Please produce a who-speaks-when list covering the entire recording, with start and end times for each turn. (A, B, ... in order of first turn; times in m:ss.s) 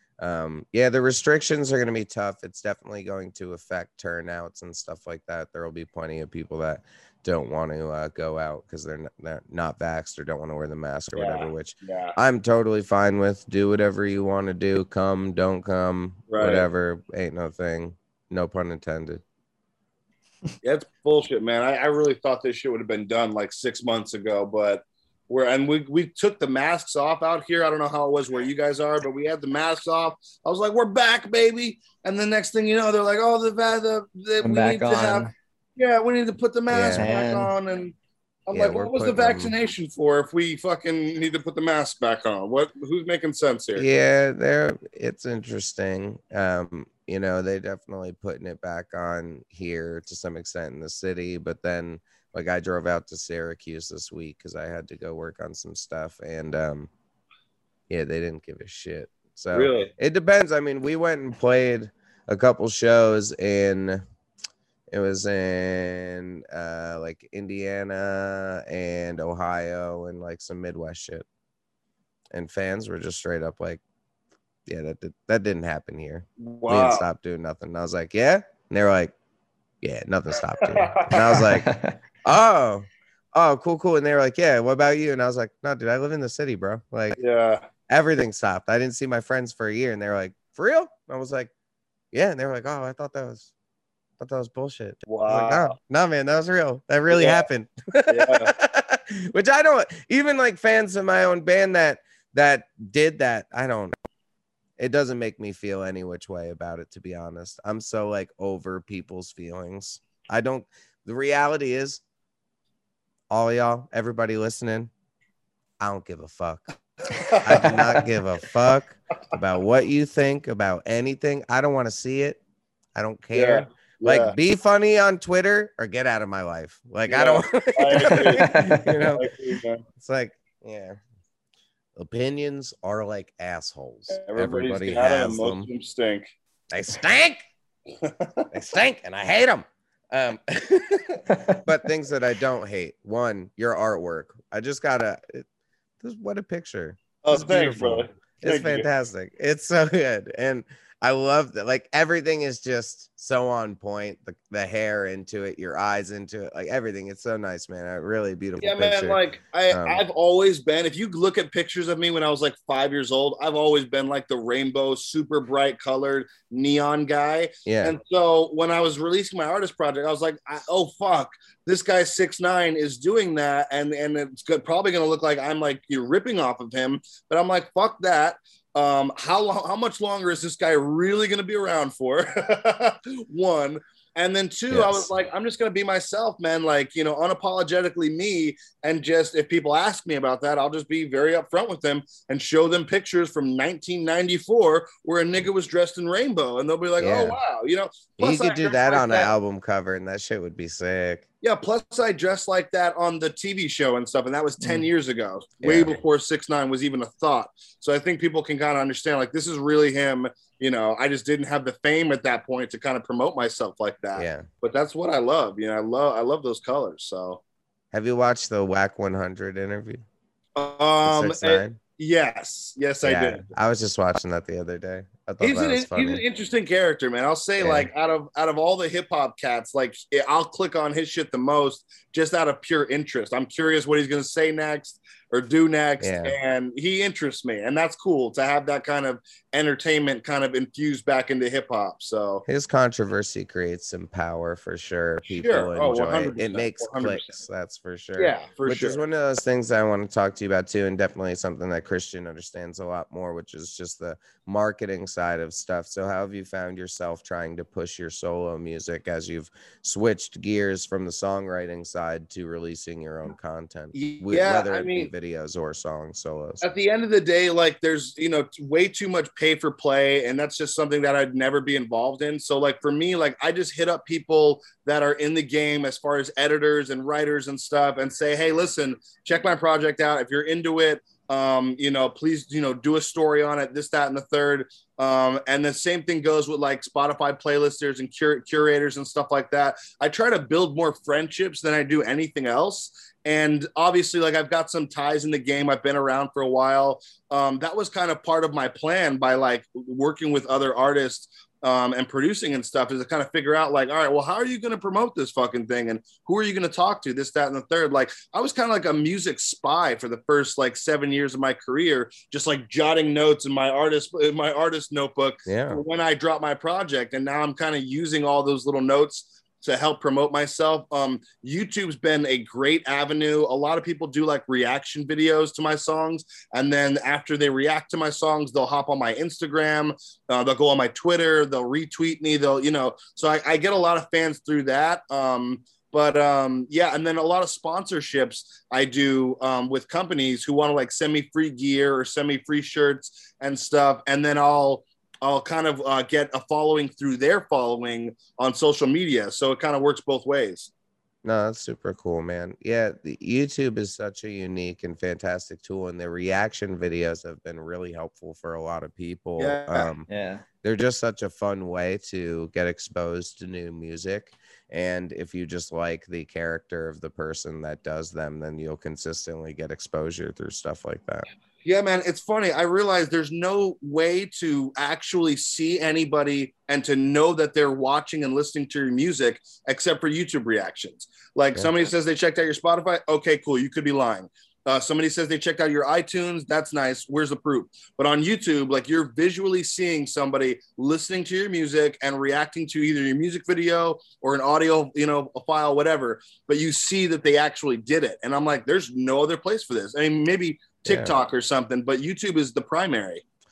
0:00.2-0:19.2 A
0:11.2-0:12.2 B
0:16.3-0:16.7 B
0:20.6-0:38.0 B
0:34.4-0:35.3 C
0:36.7-0:37.1 A
0:37.0-0:37.5 C
0:38.5-0:43.9 B
0:38.5-0:39.6 A
0:43.8-0:56.9 A
0:57.9-1:04.0 A
0:59.5-0:59.9 B
1:04.9-1:11.3 A
1:12.3-1:13.8 A
1:14.7-1:19.1 A
1:16.4-1:17.1 B
1:19.8-1:21.7 A
1:20.6-1:21.2 B
1:21.4-1:21.9 C
1:22.2-1:27.2 A
1:27.2-1:27.7 B
1:27.9-1:31.5 A
1:32.1-1:33.5 A
1:34.2-1:44.0 A
1:35.1-1:35.8 B
1:37.1-1:37.5 B
1:38.1-1:38.6 B
1:44.8-1:52.0 A
1:53.3-1:54.9 A
1:55.8-1:56.6 A
1:57.1-1:58.0 B
1:57.4-2:02.4 A
2:03.0-2:09.3 A
2:03.3-2:04.4 B
2:07.1-2:08.5 B
2:08.0-2:09.1 C
2:09.1-2:09.8 B
2:10.0-2:11.0 A
2:12.0-2:15.7 A
2:14.1-2:16.3 B
2:16.7-2:17.4 A
2:18.0-2:18.5 B
2:18.5-2:25.4 A
2:26.0-2:40.0 A
2:27.2-2:28.9 B
2:38.6-3:19.3 B
2:47.6-2:48.0 A
3:04.7-3:05.1 A
3:17.0-3:17.4 A
3:18.2-3:21.2 A
3:21.4-3:37.4 B
3:24.6-3:24.9 C
3:25.6-3:26.0 A
3:34.2-3:34.5 A
3:37.9-3:40.0 A
3:40.6-3:43.4 B
3:41.0-3:41.8 A
3:43.0-3:46.2 A
3:45.4-4:02.4 B
3:47.6-3:47.9 A
3:56.0-3:56.4 A
4:02.5-4:26.6 A
4:05.2-4:07.4 B
4:08.2-4:09.0 B
4:23.9-4:25.1 B
4:26.6-5:50.7 B
5:15.5-5:15.8 A
5:51.2-6:00.1 A
5:59.4-5:59.9 B
6:00.1-6:00.4 C
6:00.6-6:11.3 A
6:11.6-6:43.2 B
6:40.8-6:41.2 A